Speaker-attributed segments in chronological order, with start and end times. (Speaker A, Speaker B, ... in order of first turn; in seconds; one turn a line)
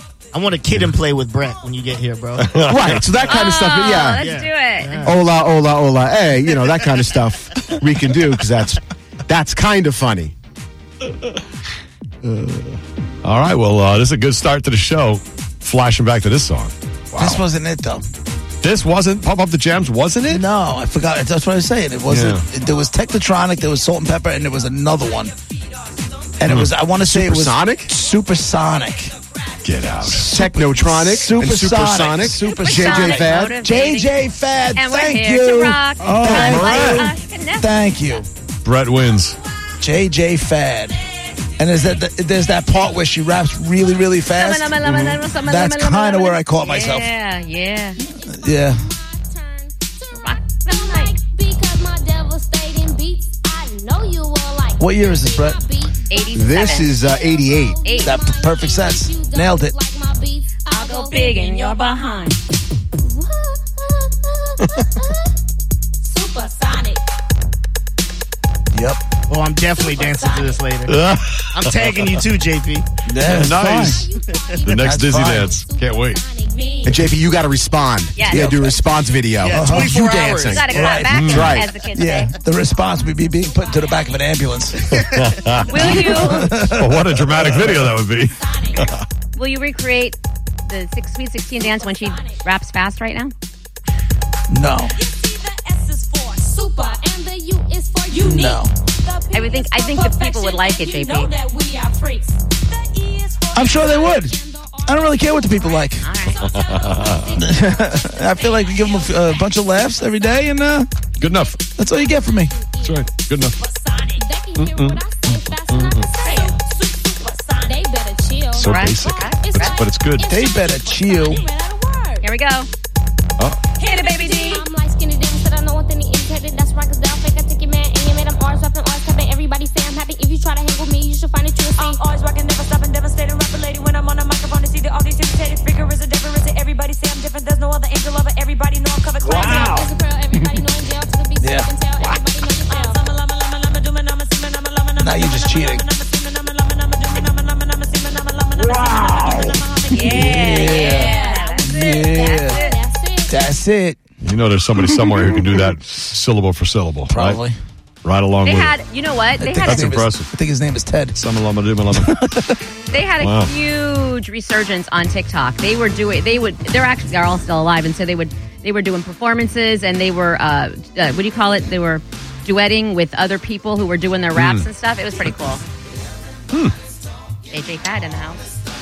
Speaker A: 0.3-2.6
Speaker B: 2.4-3.0
Speaker C: 2.6-4.3
Speaker D: 3.3-5.0
Speaker A: 4.2-5.2
Speaker C: 5.0-10.3
Speaker B: 13.2-17.4
Speaker E: 17.1-18.1
Speaker B: 18.6-20.4
Speaker E: 20.3-25.3
Speaker B: 22.1-22.4
Speaker E: 26.4-29.1
Speaker B: 26.5-26.7
Speaker C: 27.0-27.9
Speaker B: 29.6-30.4
Speaker E: 30.0-38.2
Speaker C: 30.2-33.6
Speaker D: 32.4-34.1
Speaker D: 34.8-38.2
Speaker B: 36.1-37.1
Speaker B: 38.6-39.4
Speaker E: 39.8-41.0
Speaker E: 41.6-47.1
Speaker D: 44.3-48.0
Speaker F: 48.0-62.0
Speaker E: 48.2-48.8
Speaker D: 50.1-51.1
Speaker E: 54.8-55.6
Speaker D: 56.1-56.9
Speaker C: 56.3-57.8
Speaker D: 57.8-58.2
Speaker E: 58.0-59.7
Speaker D: 60.7-62.4
Speaker F: 63.0-65.3
Speaker F: 66.0-67.0
Speaker E: 68.7-69.0
Speaker A: 69.3-71.0
Speaker F: 69.7-70.8
Speaker B: 70.9-72.2
Speaker A: 71.5-72.9
Speaker E: 73.0-74.1
Speaker B: 73.2-74.1
Speaker F: 73.7-79.4
Speaker B: 74.6-76.2
Speaker E: 74.6-75.5
Speaker C: 76.8-81.7
Speaker D: 78.1-78.6
Speaker A: 79.4-81.1
Speaker E: 79.4-81.3
Speaker D: 80.5-82.3
Speaker B: 81.1-81.6
Speaker F: 81.7-84.8
Speaker E: 81.9-84.9
Speaker A: 84.8-85.3
Speaker B: 84.9-89.0
Speaker F: 85.3-86.7
Speaker D: 85.7-86.5
Speaker E: 85.8-87.9
Speaker F: 88.1-89.0
Speaker D: 89.3-93.3
Speaker F: 91.6-92.5
Speaker E: 94.5-95.0
Speaker G: 95.0-96.6
Speaker F: 96.4-102.7
Speaker G: 98.1-98.5
Speaker E: 98.2-98.7
Speaker D: 99.3-101.3
Speaker G: 101.1-103.9
Speaker F: 103.4-110.5
Speaker E: 103.5-106.1
Speaker D: 106.0-106.5
Speaker B: 106.4-107.4
Speaker E: 107.3-110.9
Speaker B: 111.2-111.6
Speaker E: 111.8-112.5
Speaker F: 112.3-122.3
Speaker B: 112.8-113.5
Speaker B: 114.6-116.1
Speaker G: 116.2-116.5
Speaker B: 118.5-120.2
Speaker D: 118.6-119.8
Speaker E: 120.2-121.5
Speaker D: 122.2-122.7
Speaker F: 123.8-132.0
Speaker D: 123.8-124.7
Speaker G: 131.8-139.9
Speaker E: 139.2-139.9
Speaker F: 139.2-143.0
Speaker E: 141.4-141.7
Speaker G: 142.7-150.1
Speaker E: 145.0-145.8
Speaker E: 148.6-152.6
Speaker F: 148.8-153.3
Speaker D: 149.9-152.8
Speaker E: 153.3-154.0
Speaker B: 154.2-157.4
Speaker E: 155.0-155.6
Speaker E: 157.1-157.6
Speaker B: 158.0-158.7
Speaker D: 158.4-159.9
Speaker E: 159.4-161.2
Speaker B: 159.6-160.3
Speaker B: 161.1-162.3
Speaker E: 161.9-162.6
Speaker D: 162.9-175.6
Speaker B: 163.2-163.5
Speaker B: 174.3-174.7
Speaker D: 177.5-178.4